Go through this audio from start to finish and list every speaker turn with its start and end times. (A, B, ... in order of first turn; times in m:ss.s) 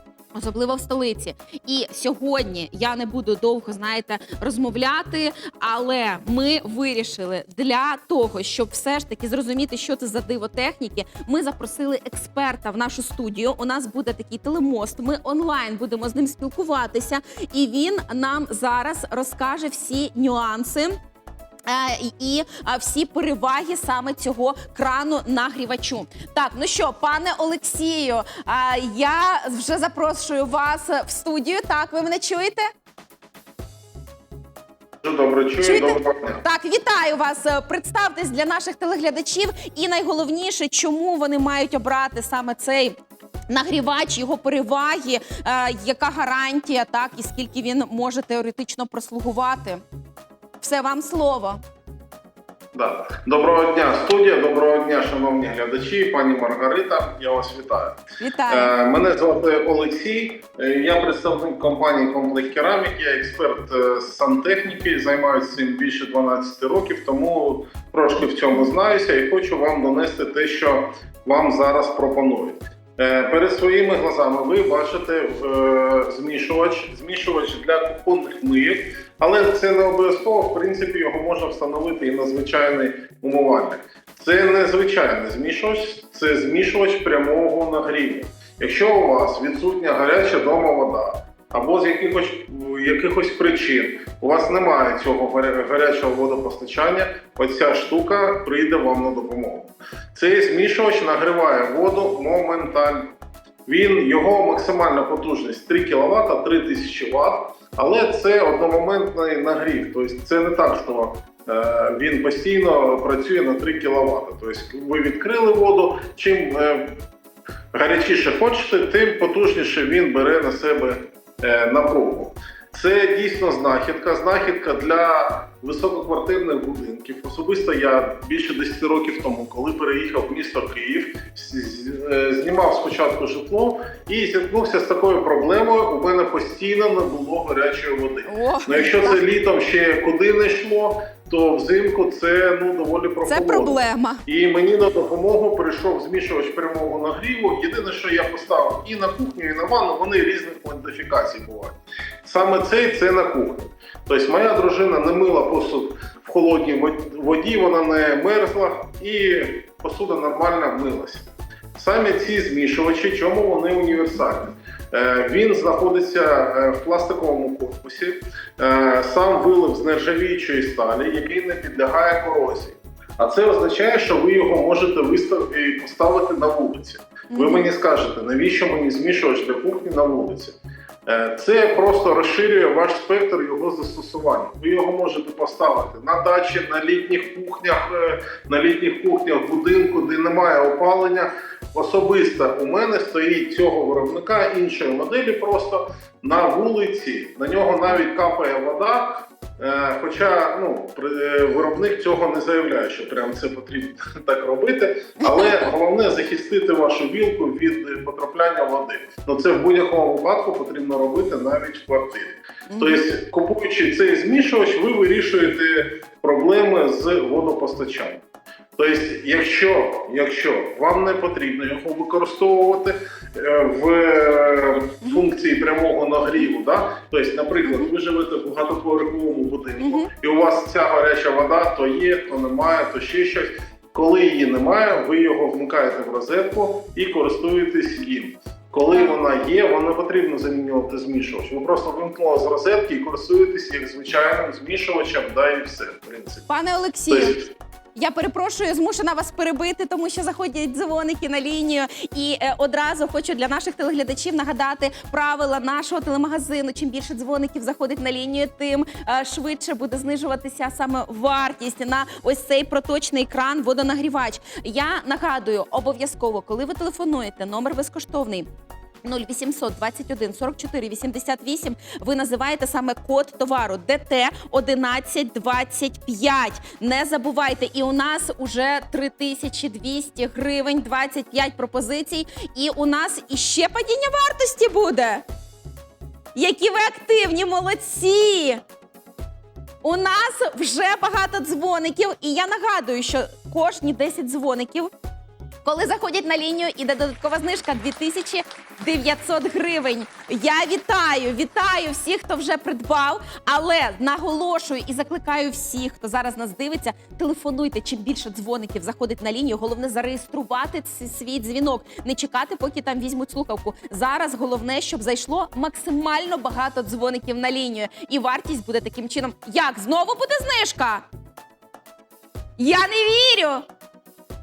0:00.3-0:21.0 A
0:21.7-0:32.7 A
0:35.0-0:36.4 B
0:35.6-0:43.0 A
0:43.5-0:49.8 A
0:50.6-0:51.6 A
0:52.7-1:43.1 B
0:58.2-0:58.7 A
1:43.7-1:57.0 B
1:57.7-3:00.6 B
2:18.3-2:19.2 A
2:23.3-2:24.2 A
2:57.3-2:57.7 A
3:01.1-3:38.2 B
3:25.2-3:25.7 A
3:32.7-3:33.0 A
3:38.8-4:06.5 B
3:47.6-3:47.9 A
3:49.8-3:50.1 A
3:58.9-3:59.2 A
4:06.5-4:07.4 A
4:07.1-4:07.4 B
4:08.0-4:28.5 A
4:29.0-4:45.2 A
4:46.4-4:48.6 A
4:49.8-4:54.9 A
4:55.6-5:21.1 A
5:22.6-5:23.6 A